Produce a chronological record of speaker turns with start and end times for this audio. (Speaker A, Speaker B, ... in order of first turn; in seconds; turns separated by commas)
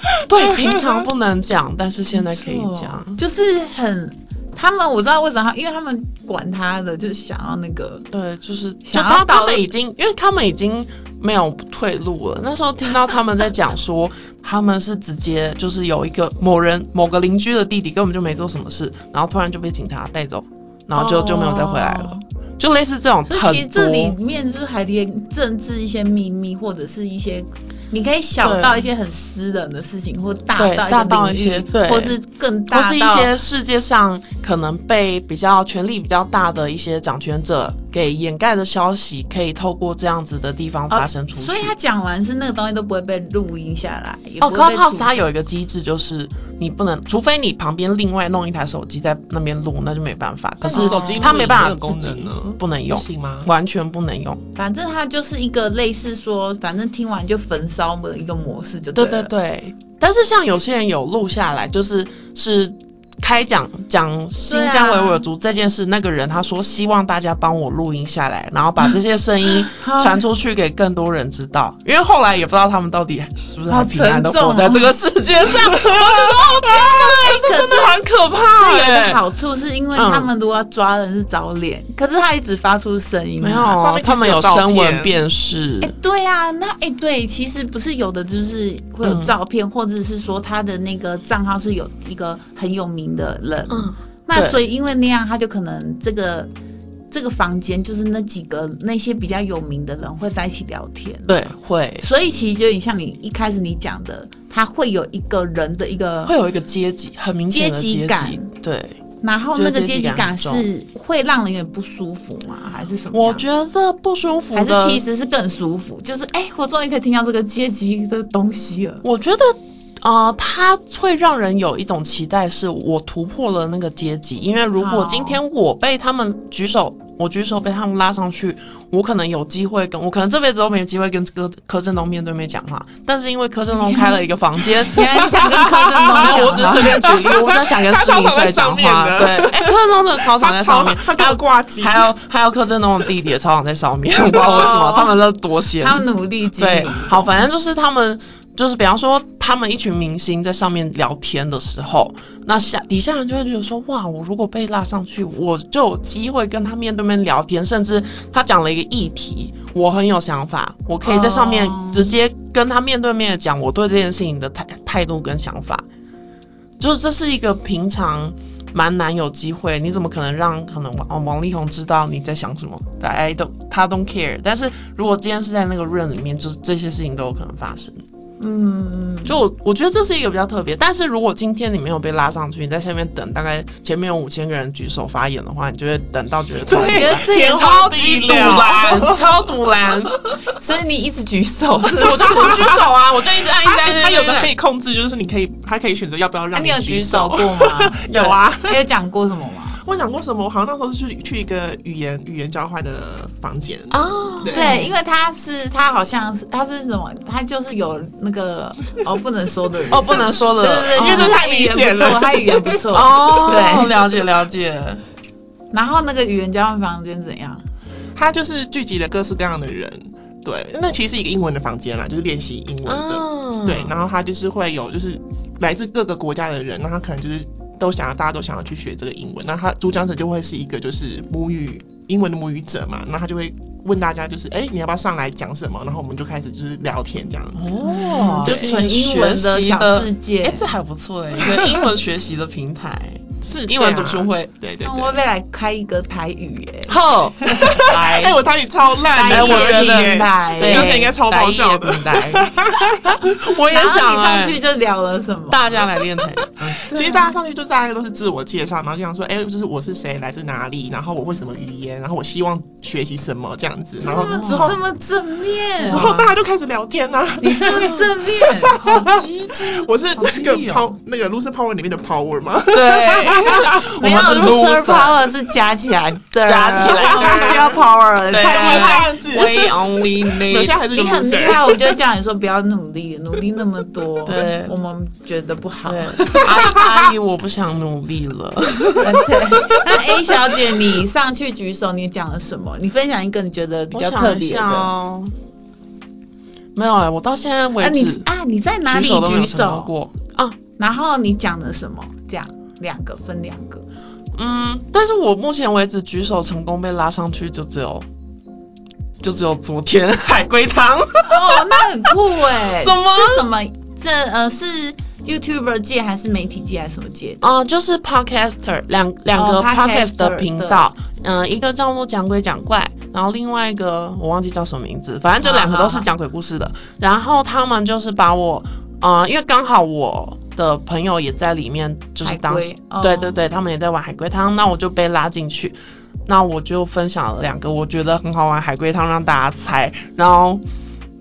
Speaker A: 0.2-3.2, Speaker B: 0.4-0.8, Speaker C: 2.1-8.1, Speaker A: 8.1-24.1, Speaker C: 8.9-9.7, Speaker C: 20.9-22.2, Speaker C: 23.3-33.3, Speaker A: 28.4-28.9, Speaker A: 30.6-32.2, Speaker A: 32.7-41.7, Speaker C: 40.9-45.2, Speaker A: 44.4-54.4, Speaker B: 50.6-53.5, Speaker C: 50.6-51.6, Speaker C: 54.5-59.3, Speaker A: 59.0-79.2, Speaker C: 64.5-65.2, Speaker C: 69.8-70.2, Speaker C: 73.7-75.0, Speaker C: 76.7-83.8, Speaker A: 80.0-80.3, Speaker A: 83.4-85.9, Speaker B: 83.8-85.2, Speaker C: 85.8-96.5, Speaker A: 89.0-89.3, Speaker A: 93.7-94.6, Speaker C: 97.1-106.4, Speaker A: 101.3-102.1, Speaker A: 106.2-109.0, Speaker C: 107.5-108.5, Speaker C: 109.2-113.5, Speaker A: 109.5-110.7, Speaker A: 113.1-115.0, Speaker C: 114.5-119.0, Speaker A: 119.0-135.5, Speaker C: 124.8-125.4, Speaker C: 133.7-134.3, Speaker C: 134.9-137.0, Speaker A: 136.2-165.8, Speaker B: 136.8-139.7, Speaker B: 140.3-142.1, Speaker C: 144.3-145.2, Speaker C: 145.8-147.4, Speaker C: 161.0-162.2, Speaker A: 166.8-178.0, Speaker C: 178.4-179.4, Speaker A: 179.3-190.2, Speaker B: 186.6-189.4, Speaker C: 186.7-188.6, Speaker C: 190.6-192.6, Speaker A: 191.9-194.5, Speaker B: 192.3-192.9, Speaker B: 193.6-198.8, Speaker C: 196.5-199.8, Speaker B: 199.8-204.9, Speaker A: 203.9-204.9, Speaker C: 204.5-214.0, Speaker A: 209.9-211.4, Speaker B: 210.9-213.6, Speaker A: 212.9-215.0, Speaker C: 215.7-217.6, Speaker B: 218.1-238.8, Speaker A: 222.9-223.9, Speaker A: 237.6-244.5, Speaker C: 237.9-240.7, Speaker B: 243.4-245.2, Speaker C: 244.8-247.8, Speaker A: 246.9-248.4, Speaker B: 247.6-253.2, Speaker C: 249.1-251.0, Speaker A: 249.3-254.6, Speaker C: 253.7-255.8, Speaker A: 255.5-257.2, Speaker B: 256.9-264.8, Speaker C: 264.0-266.1, Speaker A: 264.1-264.8, Speaker A: 265.8-266.4, Speaker B: 265.9-269.3, Speaker C: 267.4-268.8, Speaker A: 267.7-268.1, Speaker A: 268.7-270.9, Speaker B: 269.8-274.7, Speaker A: 272.7-275.2, Speaker C: 274.0-279.1, Speaker A: 276.4-280.8, Speaker B: 277.0-277.6, Speaker B: 278.3-281.8, Speaker C: 280.9-286.6, Speaker A: 284.2-284.7, Speaker A: 285.9-290.4, Speaker C: 289.0-294.9, Speaker A: 293.9-295.3, Speaker A: 296.8-298.3, Speaker C: 297.8-299.9, Speaker A: 298.9-300.6, Speaker C: 300.8-303.9, Speaker A: 304.4-308.1, Speaker A: 309.2-313.4, Speaker C: 311.3-317.4, Speaker A: 317.4-335.8, Speaker C: 319.3-320.9, Speaker C: 325.4-326.1, Speaker C: 332.2-333.4, Speaker A: 336.3-340.6